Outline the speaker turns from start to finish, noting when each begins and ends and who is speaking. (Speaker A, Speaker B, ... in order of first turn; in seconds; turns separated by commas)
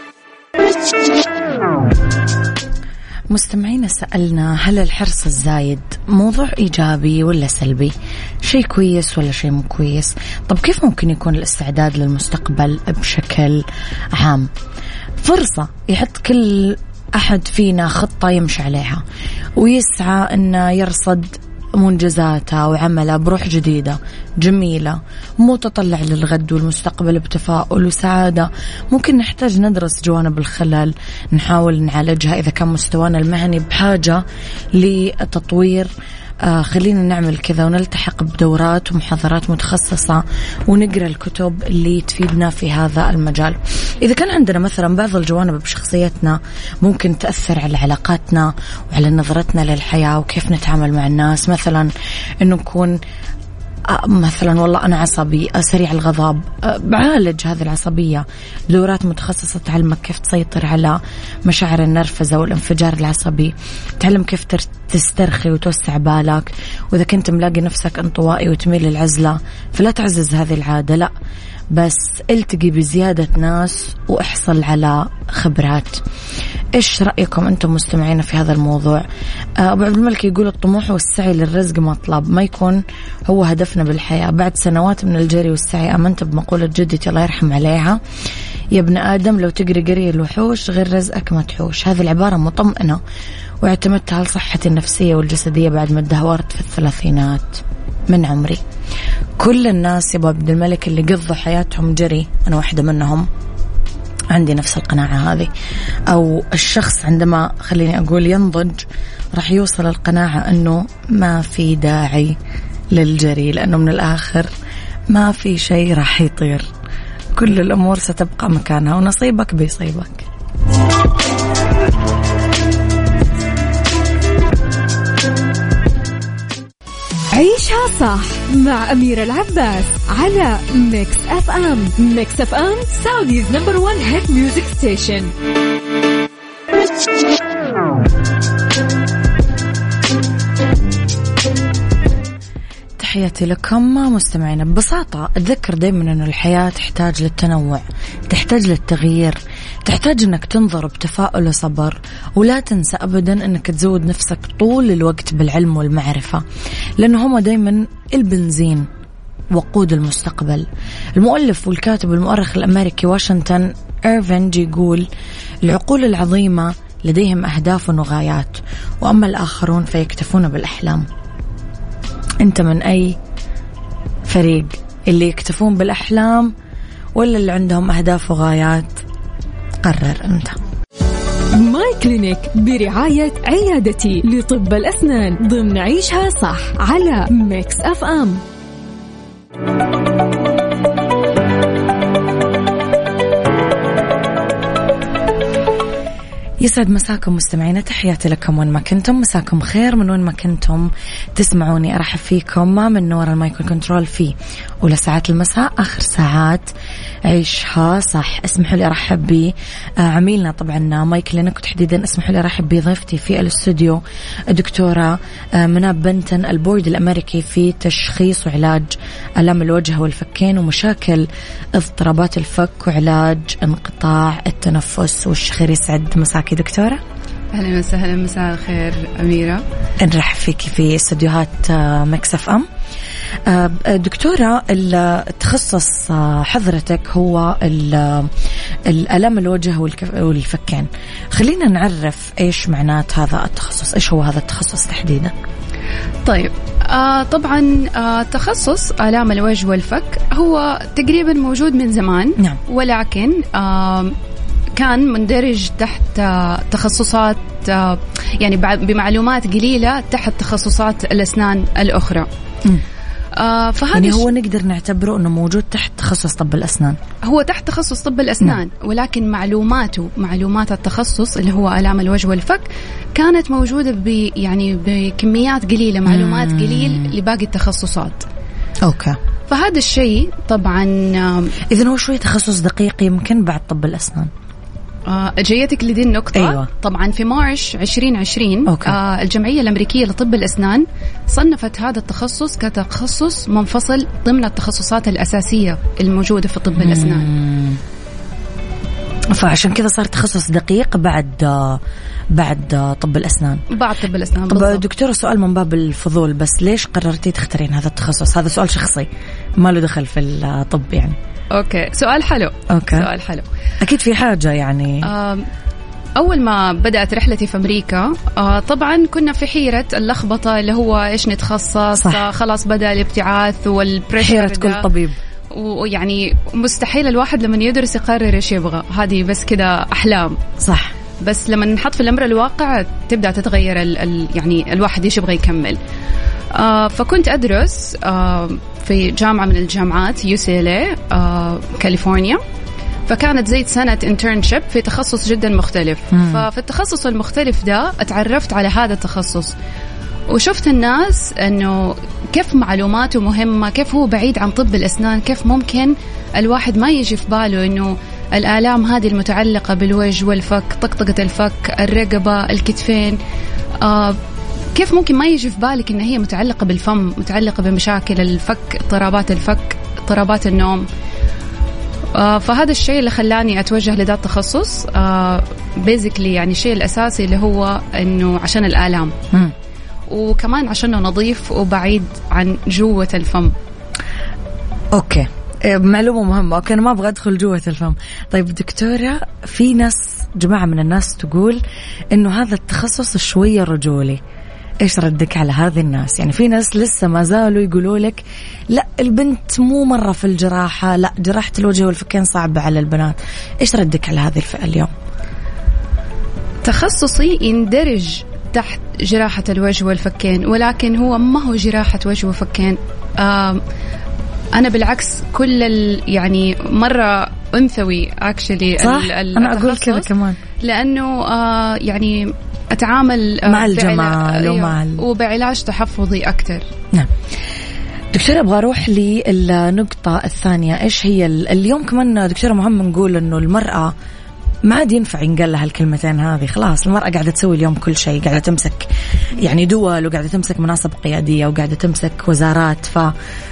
Speaker A: 3.3-14.5, Speaker A: 15.2-19.0, Speaker A: 19.6-34.2, Speaker A: 34.7-35.9, Speaker A: 36.4-51.9, Speaker A: 52.4-53.0, Speaker A: 53.9-71.1, Speaker A: 71.7-76.0, Speaker A: 76.7-79.0, Speaker A: 79.6-88.0, Speaker A: 88.7-93.0, Speaker A: 93.6-98.6, Speaker A: 99.4-103.3, Speaker A: 104.3-105.5, Speaker A: 106.1-112.4, Speaker A: 112.9-114.5, Speaker A: 115.1-116.7, Speaker A: 117.3-120.2, Speaker B: 127.3-135.3, Speaker A: 143.0-156.4, Speaker A: 157.0-158.9, Speaker A: 159.5-165.1, Speaker A: 165.6-171.1, Speaker A: 172.4-173.2, Speaker A: 174.2-176.5, Speaker A: 177.1-179.0, Speaker A: 179.8-180.6, Speaker B: 181.5-188.4, Speaker A: 196.6-206.7, Speaker A: 207.2-227.0, Speaker C: 227.5-229.6, Speaker A: 230.0-232.7, Speaker A: 233.4-238.3, Speaker A: 238.9-245.3, Speaker C: 246.2-254.2, Speaker C: 254.7-262.3, Speaker C: 263.3-264.3, Speaker A: 263.9-267.0, Speaker C: 267.2-278.2, Speaker A: 276.1-277.1, Speaker A: 278.8-279.2, Speaker C: 279.5-281.6, Speaker A: 281.7-284.3, Speaker C: 285.1-297.3, Speaker A: 286.3-286.7, Speaker A: 288.7-288.9, Speaker A: 296.8-297.8, Speaker A: 299.3-301.8, Speaker A: 302.3-303.6, Speaker C: 303.7-304.8, Speaker A: 304.5-311.2, Speaker C: 311.5-313.5, Speaker A: 312.7-313.1, Speaker A: 313.8-315.1, Speaker C: 315.0-315.5, Speaker C: 316.2-324.9, Speaker A: 322.0-322.2, Speaker A: 324.2-325.2, Speaker C: 325.5-330.4, Speaker A: 330.6-330.9, Speaker C: 331.2-335.8, Speaker C: 336.5-342.4, Speaker C: 343.1-349.5, Speaker A: 346.1-346.4, Speaker C: 350.3-363.2, Speaker C: 363.8-364.2, Speaker C: 364.7-370.9, Speaker C: 372.1-379.1, Speaker C: 380.1-383.5, Speaker A: 384.9-394.2, Speaker A: 394.8-404.9, Speaker C: 406.6-413.6, Speaker C: 414.5-420.1, Speaker A: 418.8-420.4, Speaker C: 420.6-426.7, Speaker A: 423.4-425.0, Speaker A: 428.1-433.9, Speaker A: 434.6-443.1